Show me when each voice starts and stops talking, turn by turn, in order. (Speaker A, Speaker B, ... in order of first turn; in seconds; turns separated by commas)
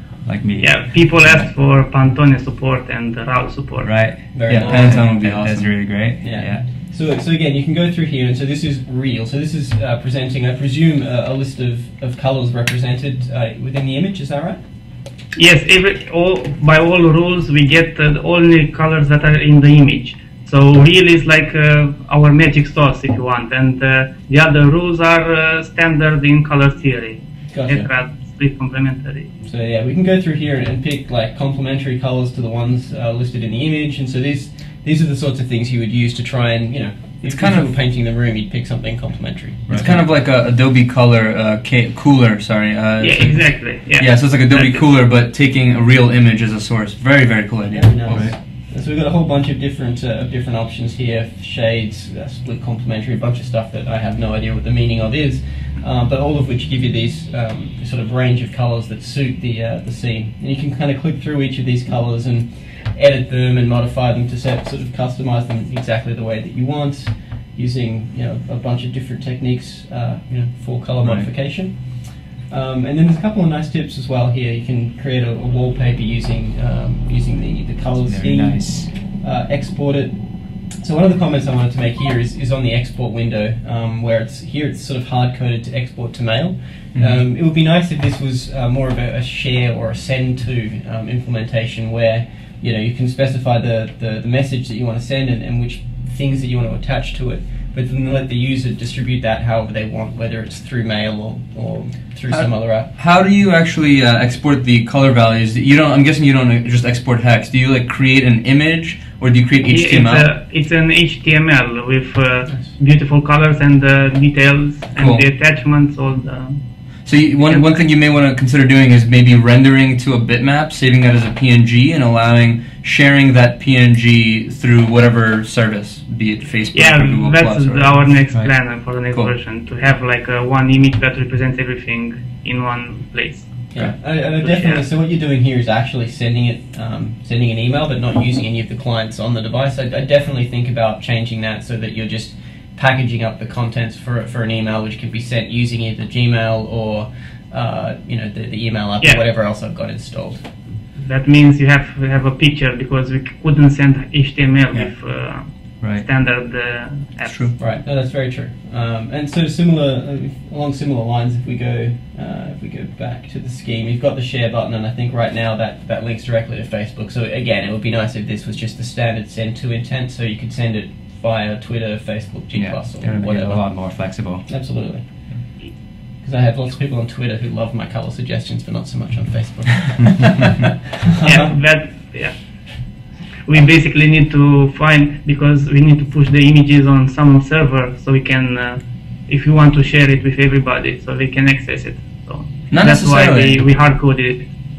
Speaker A: 0.2-1.5, Speaker B: 0.6-4.1, Speaker A: 3.8-6.6, Speaker C: 4.3-5.2, Speaker D: 4.5-5.9, Speaker C: 6.2-14.6, Speaker B: 15.3-29.3, Speaker C: 27.5-27.9, Speaker C: 29.4-40.0, Speaker D: 37.2-37.7, Speaker A: 39.7-40.0, Speaker D: 39.7-48.3, Speaker B: 43.0-44.8, Speaker C: 47.7-102.9, Speaker A: 48.1-48.3, Speaker A: 78.0-78.9, Speaker D: 102.3-110.3, Speaker B: 109.7-116.6, Speaker D: 115.0-115.2, Speaker D: 117.0-128.1, Speaker B: 117.4-117.8, Speaker B: 126.7-133.5, Speaker C: 133.7-150.4, Speaker B: 134.4-134.8, Speaker B: 150.9-157.5, Speaker D: 157.2-157.6, Speaker C: 157.6-173.8, Speaker A: 172.5-174.5, Speaker C: 174.4-175.0, Speaker C: 176.2-181.5, Speaker B: 181.2-194.5, Speaker D: 192.7-193.6